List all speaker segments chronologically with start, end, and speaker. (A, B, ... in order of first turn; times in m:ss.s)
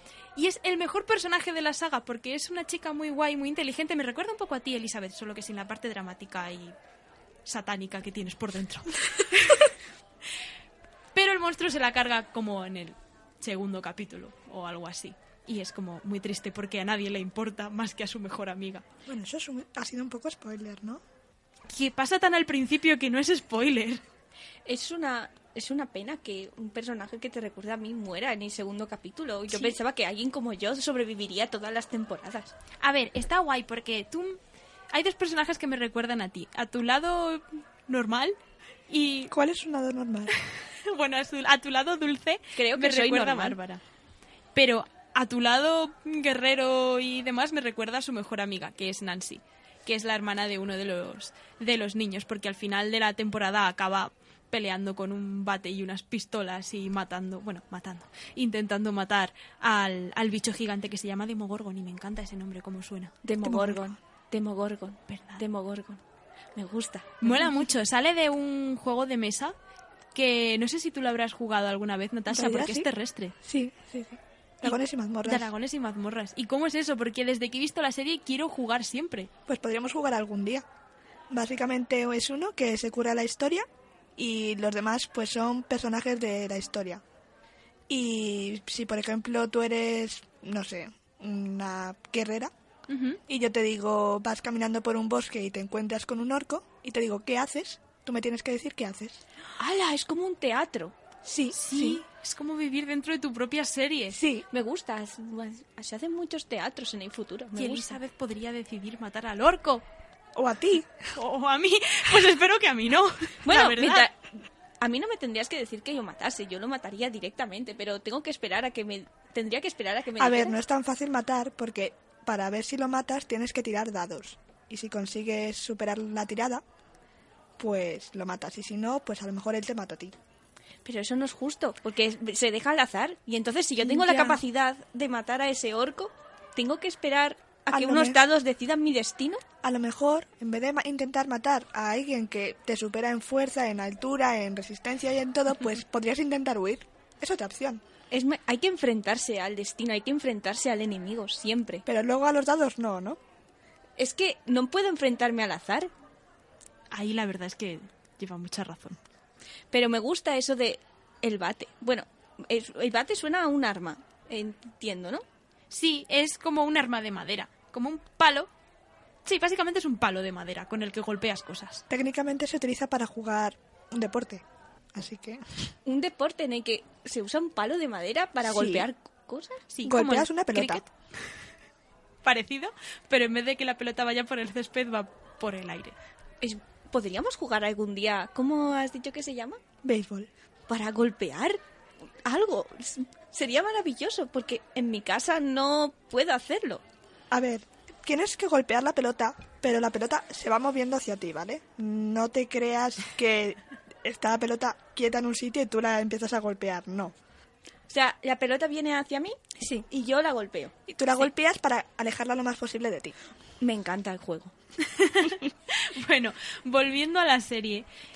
0:00.4-0:06.8 A
0:07.4-0:09.7 A
0:11.1-0:18.8 A
0:19.0-0:21.0 B
0:21.7-0:24.0 A
0:24.6-0:32.5 C
0:32.8-0:34.4 A
0:34.9-0:38.4 A
0:38.9-0:39.3 A
0:39.3-0:40.3 B
0:40.4-0:43.8 A
0:42.6-0:43.6 C
0:44.5-1:03.1 A
1:03.2-1:06.0 C
1:03.4-1:04.0 B
1:05.1-1:05.4 A
1:06.5-1:07.3 C
1:07.2-1:09.5 A
1:10.1-1:13.3 A
1:12.3-1:12.9 B
1:13.4-1:15.5 B
1:15.2-1:19.3 A
1:19.5-1:20.6 B
1:21.3-1:23.6 B
1:24.2-1:27.0 B
1:27.9-1:32.5 B
1:32.9-1:33.2 A
1:33.3-1:39.2 B
1:39.6-1:41.0 C
1:41.2-1:42.0 B
1:41.5-1:44.2 A
1:44.1-1:44.4 B
1:44.5-1:48.0 C
1:47.6-1:49.8 A
1:50.4-1:51.1 B
1:51.1-1:54.1 A
1:53.4-1:54.3 C
1:54.8-2:00.6 C
2:00.2-2:06.6 B
2:07.6-2:10.2 B
2:10.8-2:19.4 C
2:13.8-2:14.4 B
2:17.7-2:18.2 B
2:19.6-2:27.8 B
2:28.1-2:31.8 C
2:31.8-2:33.2 B
2:34.0-2:35.9 C
2:36.9-2:39.0 A
2:39.7-2:45.2 C
2:45.7-2:48.5 A
2:49.2-2:51.8 A
2:51.9-2:55.6 B
2:55.8-2:59.6 C
2:58.4-2:58.8 B
2:59.7-3:00.9 A
2:59.8-3:00.8 B
3:02.2-3:06.0 A
3:06.4-3:09.6 C
3:09.8-3:10.3 B
3:10.7-3:11.6 C
3:12.2-3:16.8 C
3:17.3-3:27.1 B
3:27.9-3:30.7 C
3:30.9-3:33.2 B
3:33.6-3:34.5 C
3:34.8-3:37.8 A